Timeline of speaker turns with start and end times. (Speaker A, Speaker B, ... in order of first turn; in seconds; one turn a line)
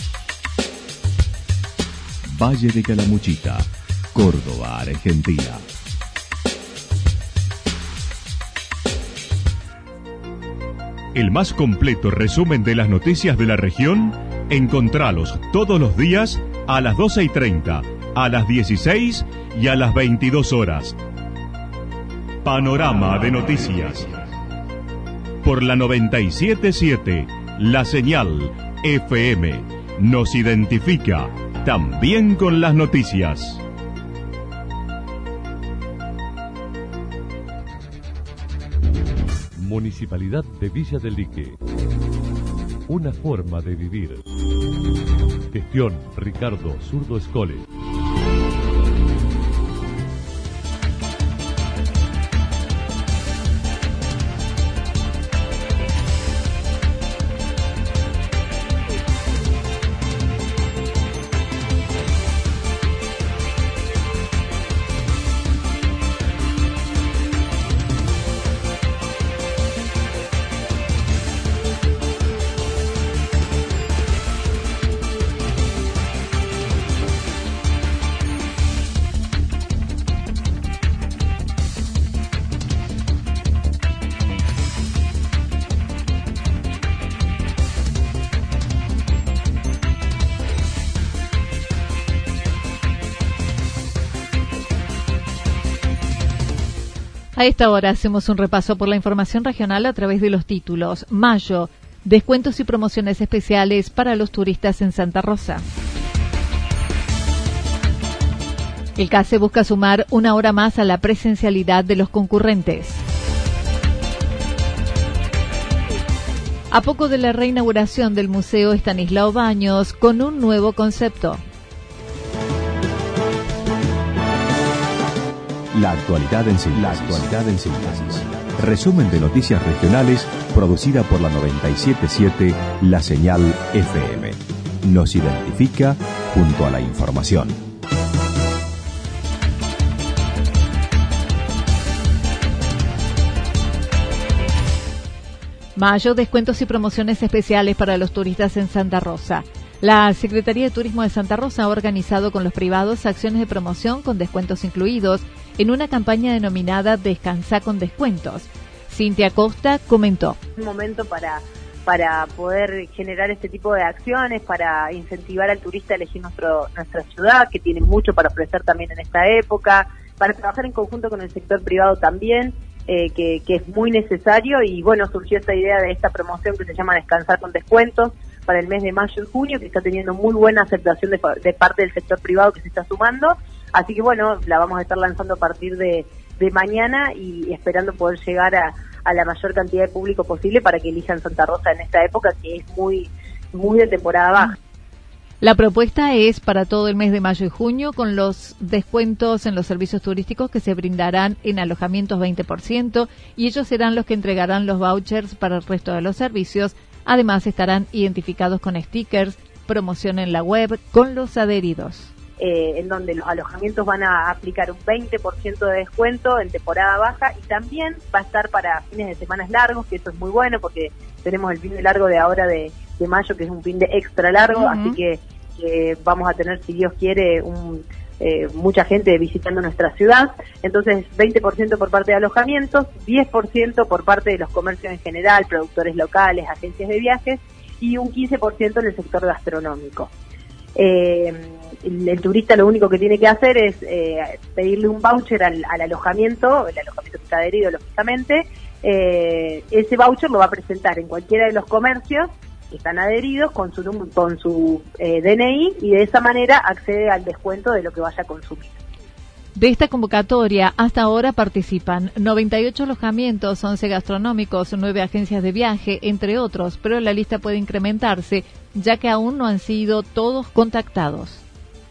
Speaker A: 2.2-5.6
Speaker A: 11.1-20.9
Speaker A: 22.4-24.1
Speaker A: 25.4-33.6
Speaker B: 39.6-41.6
Speaker B: 42.9-44.2
Speaker B: 45.5-47.6
Speaker C: 97.3-105.6
Speaker C: 109.0-113.0
Speaker C: 116.7-121.4
Speaker A: 125.7-137.6
Speaker C: 145.8-160.4
Speaker D: 160.6-194.6
Speaker C: 195.4-212.1
Speaker D: 212.4-240.1
Speaker C: 224.5-224.9
Speaker D: 240.8-258.8
Speaker C: 259.5-271.4